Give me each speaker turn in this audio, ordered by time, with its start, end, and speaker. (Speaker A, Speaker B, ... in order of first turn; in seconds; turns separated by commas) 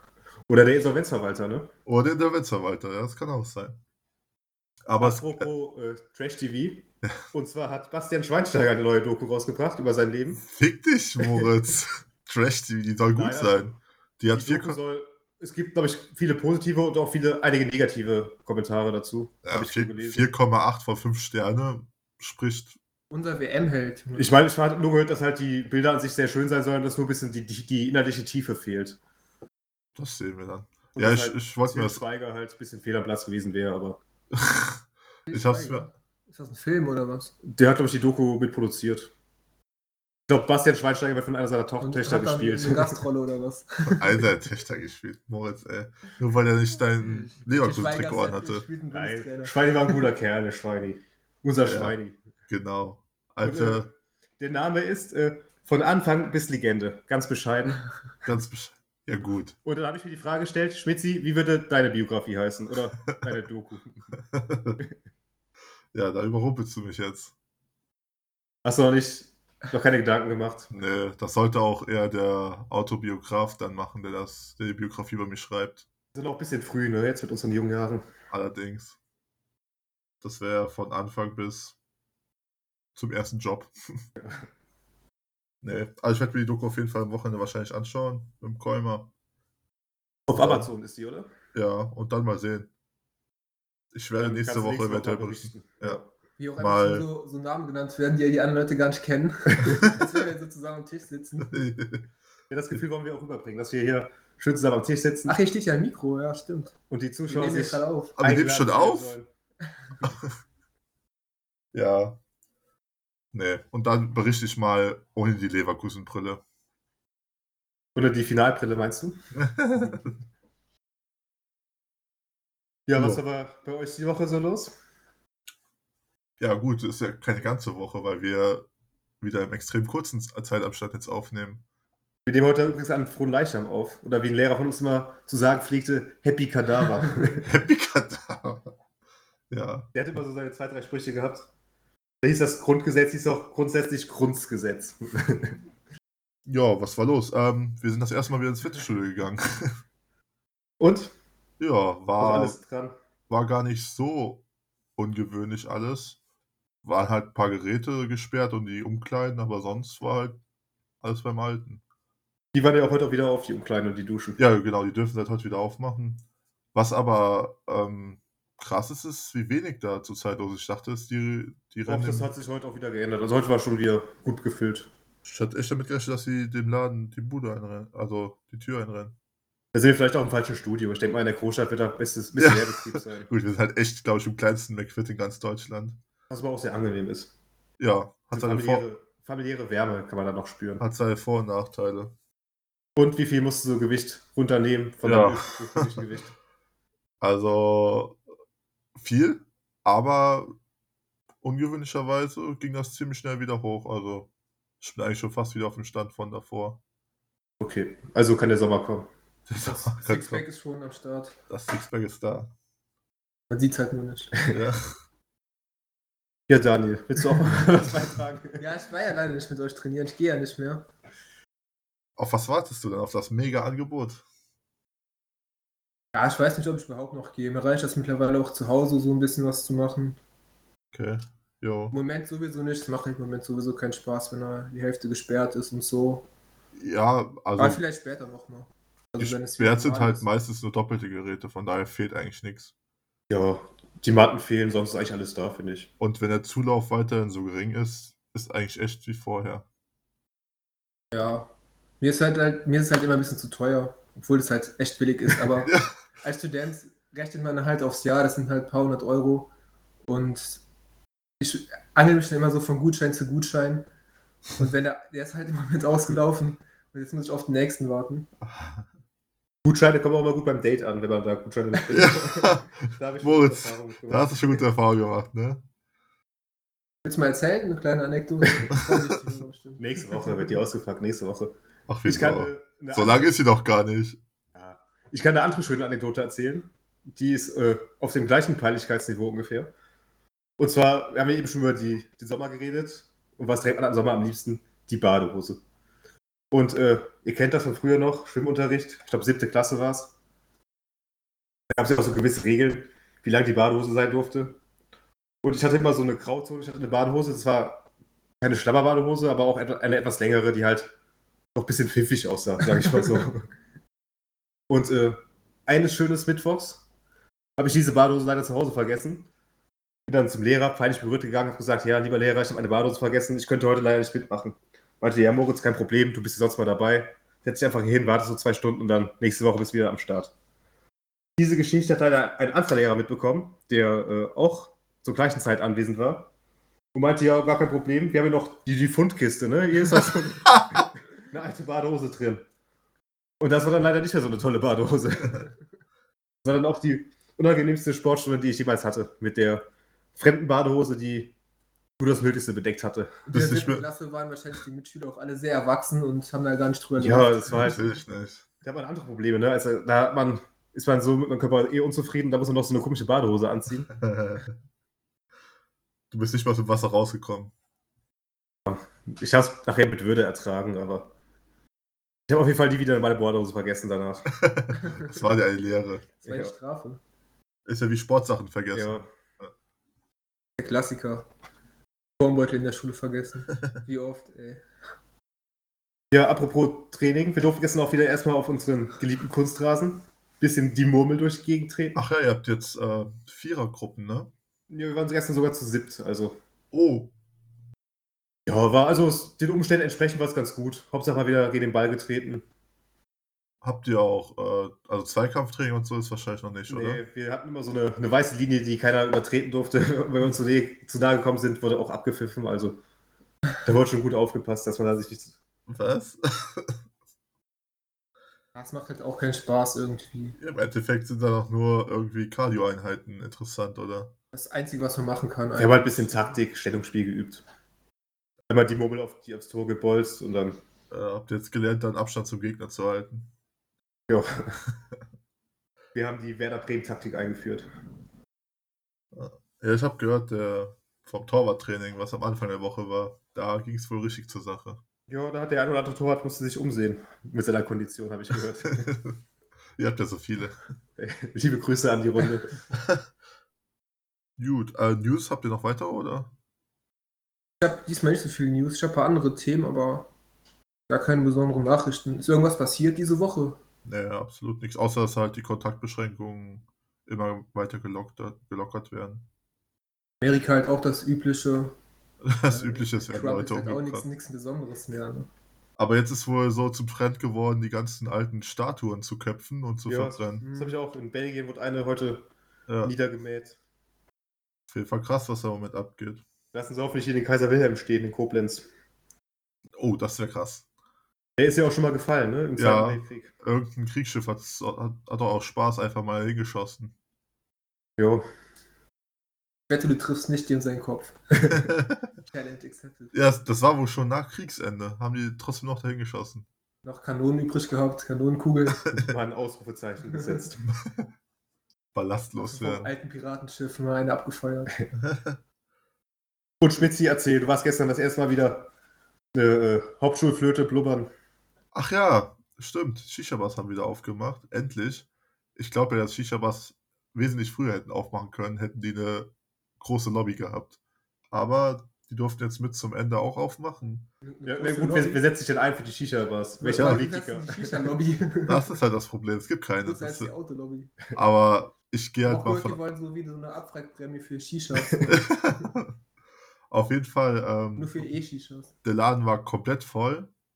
Speaker A: 0.5-1.7, Speaker B: 1.9-3.8, Speaker B: 4.9-5.5, Speaker A: 5.0-10.4, Speaker B: 10.4-14.8, Speaker A: 13.2-13.8, Speaker A: 14.3-20.3, Speaker B: 19.4-22.8, Speaker C: 23.1-24.3, Speaker A: 24.2-29.0, Speaker B: 30.0-32.0, Speaker A: 30.9-34.0, Speaker B: 34.3-35.9, Speaker C: 35.3-37.3, Speaker A: 37.4-39.1, Speaker A: 40.3-43.0, Speaker C: 41.8-44.3, Speaker B: 43.9-48.7, Speaker C: 47.0-50.1, Speaker A: 48.9-52.2, Speaker B: 51.7-52.0, Speaker B: 52.5-53.9, Speaker A: 53.4-53.9, Speaker A: 54.4-57.8, Speaker B: 58.3-59.6, Speaker A: 59.6-64.2, Speaker B: 64.3-64.8, Speaker B: 65.9-67.3, Speaker A: 68.7-70.7, Speaker B: 70.7-75.9, Speaker A: 76.1-78.0, Speaker B: 78.3-79.0, Speaker B: 80.2-81.8, Speaker B: 83.0-84.0, Speaker A: 84.2-84.4, Speaker B: 85.6-89.1, Speaker A: 90.3-91.3, Speaker B: 90.4-90.7, Speaker B: 91.5-92.7, Speaker B: 93.9-96.0, Speaker A: 94.2-96.1, Speaker C: 96.4-101.6, Speaker B: 96.6-97.1, Speaker B: 101.5-102.1, Speaker A: 102.5-105.4, Speaker C: 105.3-106.7, Speaker A: 106.9-109.3, Speaker C: 107.3-108.2, Speaker B: 108.2-109.2, Speaker B: 110.0-110.3, Speaker B: 111.7-112.2, Speaker B: 113.3-116.4, Speaker A: 118.0-119.2, Speaker B: 119.4-120.1, Speaker A: 119.8-120.1, Speaker A: 122.9-124.7, Speaker B: 123.0-123.2, Speaker B: 126.4-128.7, Speaker B: 129.2-131.6, Speaker A: 132.3-137.5, Speaker B: 137.4-138.7, Speaker B: 139.5-139.9, Speaker A: 139.9-141.5, Speaker A: 142.2-145.6, Speaker B: 146.5-149.8, Speaker A: 150.8-151.1, Speaker B: 151.6-152.6, Speaker A: 152.2-152.9, Speaker B: 153.3-154.4, Speaker B: 155.0-156.2, Speaker B: 156.8-160.4, Speaker B: 161.0-161.8, Speaker A: 162.5-164.4, Speaker B: 164.4-166.2, Speaker B: 166.7-172.3, Speaker A: 171.9-174.9, Speaker B: 175.2-179.2, Speaker A: 179.7-183.3, Speaker B: 182.4-186.0, Speaker A: 186.3-187.3, Speaker B: 187.8-188.9, Speaker A: 188.3-190.8, Speaker B: 190.8-192.1, Speaker A: 193.0-196.3, Speaker B: 195.0-196.1, Speaker B: 197.2-198.2, Speaker B: 199.0-200.6, Speaker B: 201.4-204.3, Speaker B: 204.8-206.8, Speaker A: 207.6-209.1, Speaker B: 209.5-210.4, Speaker C: 209.6-211.4, Speaker B: 211.5-212.5, Speaker C: 213.5-214.3, Speaker B: 214.5-214.9, Speaker A: 216.5-218.6, Speaker C: 218.6-220.9, Speaker B: 222.2-224.2, Speaker C: 226.1-230.2, Speaker B: 230.9-231.9, Speaker C: 231.9-236.3, Speaker B: 236.8-237.8, Speaker C: 237.6-240.3, Speaker B: 239.2-242.7, Speaker A: 243.3-245.9, Speaker B: 246.0-249.7, Speaker C: 251.1-251.5, Speaker C: 252.0-259.5, Speaker B: 255.6-255.9, Speaker C: 260.1-260.6, Speaker C: 261.4-263.9, Speaker C: 264.6-268.3, Speaker B: 268.5-268.8, Speaker A: 269.6-274.6, Speaker B: 271.9-275.6, Speaker C: 277.1-280.4, Speaker A: 279.8-283.2, Speaker B: 281.9-284.2, Speaker A: 284.6-289.7, Speaker A: 290.6-295.6, Speaker A: 296.5-300.1, Speaker A: 301.7-304.6, Speaker A: 305.4-307.9, Speaker A: 308.4-310.9, Speaker A: 311.6-313.5, Speaker A: 314.7-316.8, Speaker A: 317.6-319.3, Speaker A: 320.1-330.3, Speaker A: 331.4-336.3, Speaker A: 336.9-342.4, Speaker A: 343.4-345.4, Speaker A: 346.4-351.3, Speaker A: 352.0-353.2, Speaker C: 353.3-357.6, Speaker B: 353.3-353.9, Speaker A: 357.0-357.9, Speaker B: 357.5-358.4, Speaker A: 358.6-363.9, Speaker B: 363.9-364.6, Speaker B: 366.1-367.5, Speaker A: 368.7-371.1, Speaker A: 372.3-374.3, Speaker B: 374.3-376.1, Speaker C: 374.8-375.1, Speaker C: 376.2-377.0, Speaker A: 376.3-376.5, Speaker B: 377.7-379.5, Speaker A: 378.7-379.1, Speaker C: 380.6-381.3, Speaker C: 382.2-384.6, Speaker A: 386.1-392.0, Speaker B: 391.9-394.3, Speaker A: 394.7-396.4, Speaker B: 396.7-397.1, Speaker A: 398.5-402.4, Speaker B: 403.6-407.0, Speaker A: 406.7-412.8, Speaker A: 413.6-415.4, Speaker B: 415.7-416.8, Speaker C: 418.6-420.4, Speaker B: 420.4-424.1, Speaker C: 424.3-426.4, Speaker A: 425.6-427.4, Speaker A: 428.5-430.6, Speaker B: 430.9-433.3, Speaker A: 434.1-434.6, Speaker A: 435.9-437.7, Speaker B: 439.1-444.8, Speaker A: 445.1-448.9, Speaker B: 448.8-449.2, Speaker B: 449.8-450.6, Speaker A: 451.0-452.6, Speaker B: 452.7-453.0, Speaker B: 454.4-456.3, Speaker C: 457.6-460.1, Speaker C: 460.9-463.6, Speaker B: 463.9-469.3, Speaker C: 470.2-471.8, Speaker B: 472.2-474.1, Speaker C: 472.5-475.3, Speaker B: 475.8-480.4, Speaker A: 479.9-482.3, Speaker C: 480.4-480.8, Speaker B: 482.7-482.9, Speaker A: 482.8-483.6, Speaker B: 484.7-486.2, Speaker A: 486.5-488.7, Speaker B: 489.8-490.6, Speaker A: 491.4-493.3, Speaker B: 492.6-496.9, Speaker A: 498.0-498.2, Speaker C: 499.7-501.6, Speaker B: 501.6-502.0, Speaker C: 502.3-503.1, Speaker B: 503.1-506.5, Speaker C: 506.8-508.9, Speaker A: 508.9-510.7, Speaker C: 510.1-510.4, Speaker B: 510.7-511.1, Speaker B: 511.9-512.9, Speaker C: 512.4-514.7, Speaker B: 515.0-515.4, Speaker A: 516.6-518.7, Speaker A: 519.3-521.1, Speaker B: 521.7-530.8, Speaker B: 531.3-534.1, Speaker C: 534.2-535.2, Speaker A: 534.5-537.9, Speaker C: 536.6-538.7, Speaker B: 536.8-537.0, Speaker B: 538.5-540.3, Speaker C: 539.8-541.0, Speaker B: 541.1-542.8, Speaker C: 542.2-545.2, Speaker A: 544.8-545.1, Speaker B: 545.1-545.9, Speaker B: 546.7-548.1, Speaker C: 547.8-548.7, Speaker B: 548.8-550.3